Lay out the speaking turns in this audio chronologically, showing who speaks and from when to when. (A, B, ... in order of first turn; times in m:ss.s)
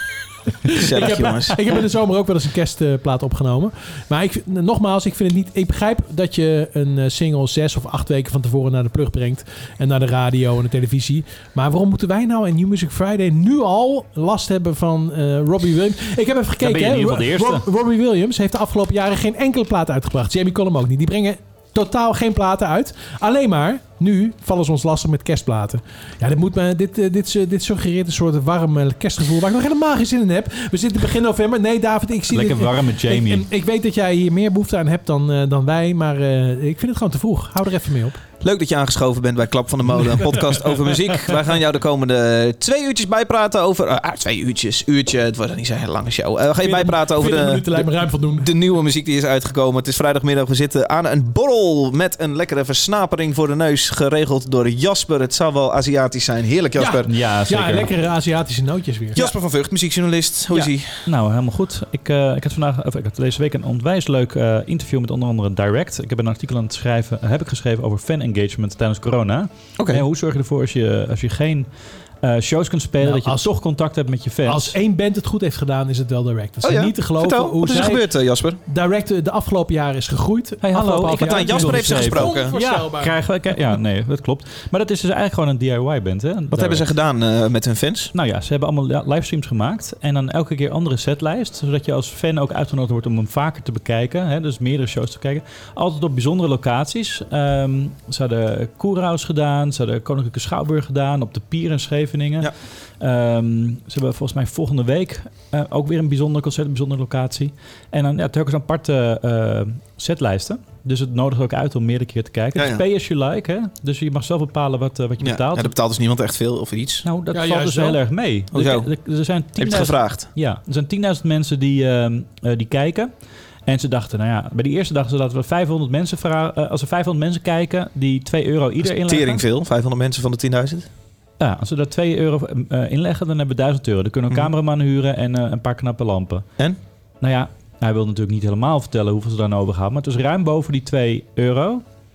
0:00.7-0:38.2 A
0:00.7-0:01.7 B
0:16.6-0:17.6 C
0:32.3-0:33.4 C
0:38.4-0:57.1 B
0:46.6-0:48.5 A
0:56.8-0:59.2 A
0:57.1-0:57.9 C
0:59.2-1:01.0 B
1:00.5-1:11.7 C
1:09.8-1:10.0 B
1:12.2-1:14.8 C
1:13.0-1:13.5 A
1:14.5-1:18.1 A
1:16.6-1:18.6 B
1:18.6-1:23.2 A
1:20.6-1:26.8 C
1:21.0-1:22.6 B
1:26.5-1:28.1 B
1:28.1-1:55.7 C
1:52.6-1:52.8 B
1:55.2-1:57.1 B
1:57.0-2:03.1 C
1:57.3-1:58.0 A
1:58.5-1:58.9 B
1:59.6-2:00.3 B
2:03.7-2:09.4 C
2:08.8-2:10.9 B
2:11.4-2:16.5 C
2:17.2-2:21.8 C